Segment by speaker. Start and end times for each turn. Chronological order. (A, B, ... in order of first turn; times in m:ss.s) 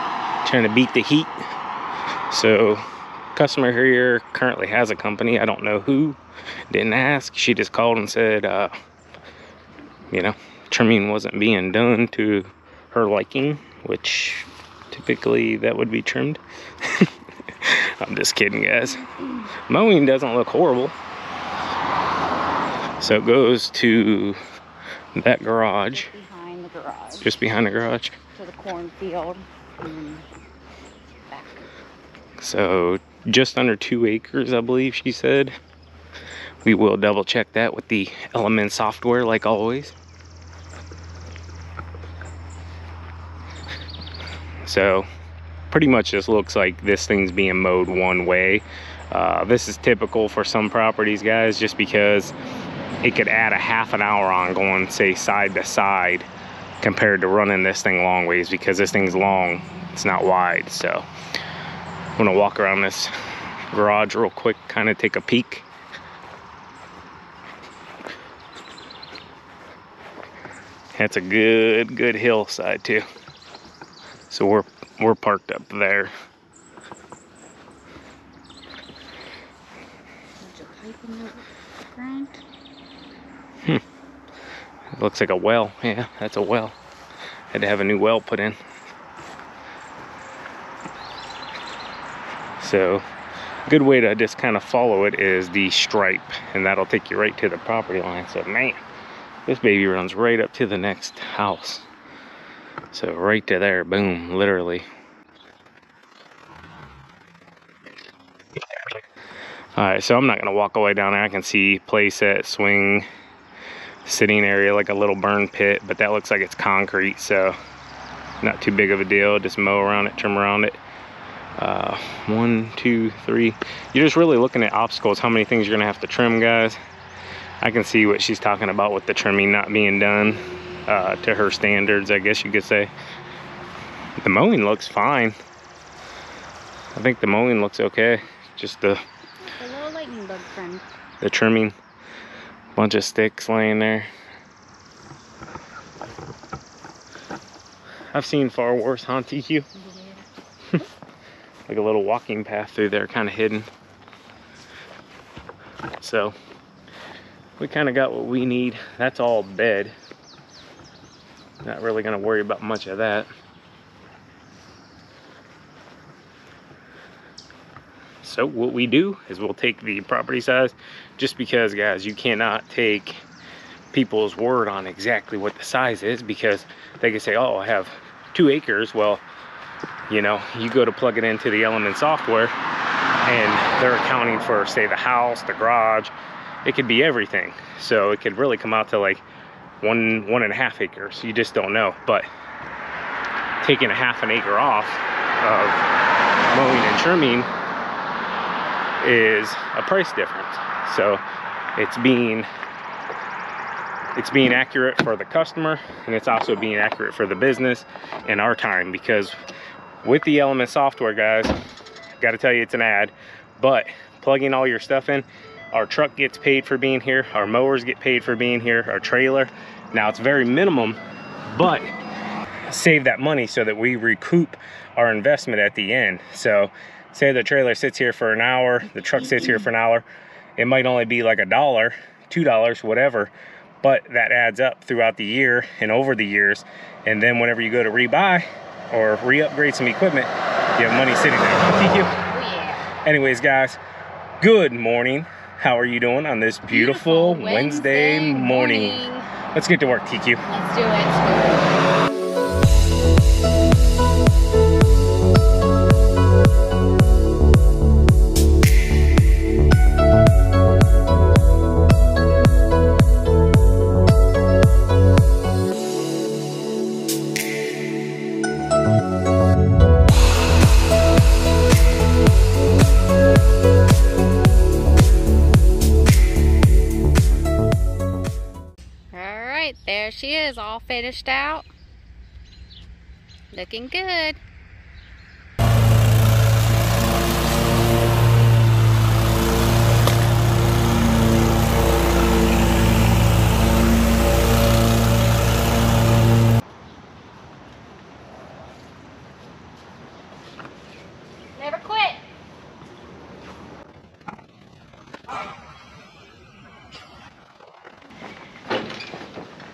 0:00.4-0:01.3 A
0:02.3-0:02.8 A
0:03.3-0:06.2 A
0:06.7-0:08.7 A
0:10.1-0:19.2 A
0:19.7-0:21.0 A
0:23.0-0:24.4 A
0:25.1-0:26.1 A
0:25.9-0:27.3 B
0:27.2-0:28.2 A
0:28.3-0:30.2 B
0:31.3-0:31.6 B
0:32.4-0:35.5 A
0:36.6-0:39.9 A
0:44.6-0:45.1 A
0:45.7-0:52.3 A
0:53.0-0:56.3 A
0:56.8-1:01.1 A
1:02.2-1:03.1 A
1:03.7-1:05.6 A
1:11.0-1:13.0 A
1:14.3-1:16.1 A
1:20.4-1:21.4 B
1:21.9-1:22.4 B
1:24.9-1:26.8 A
1:27.5-1:28.6 A
1:32.6-1:33.0 A
1:33.6-1:38.8 A
1:39.4-1:41.8 A
1:42.9-1:44.9 A
1:49.8-1:53.1 A
1:54.0-1:57.5 A
1:58.4-2:00.8 A
2:01.6-2:06.8 A
2:07.6-2:12.9 A
2:14.2-2:15.4 A
2:17.0-2:19.0 A
2:19.6-2:20.8 B
2:21.2-2:21.7 A
2:22.8-2:24.1 A
2:28.1-2:29.7 A
2:29.8-2:30.2 B
2:31.7-2:33.7 A
2:36.0-2:36.4 A
2:37.6-2:39.9 A
2:41.6-2:43.3 A
2:48.2-2:53.2 A
2:53.9-2:59.2 A
3:00.1-3:02.5 A
3:03.2-3:06.1 A
3:06.6-3:09.2 A
3:09.8-3:12.2 A
3:13.6-3:15.9 A
3:16.5-3:17.5 A
3:19.0-3:21.2 A
3:21.8-3:22.5 A
3:24.1-3:29.4 A
3:30.0-3:31.5 A
3:32.2-3:41.9 A
3:42.7-3:50.0 A
3:50.6-4:02.1 A
4:02.3-4:02.9 B
4:03.0-4:03.8 A
4:04.4-4:10.4 A
4:06.7-4:09.3 B
4:10.5-4:11.8 B
4:39.1-4:41.7 B
4:43.5-4:44.4 B
5:01.6-5:02.2 B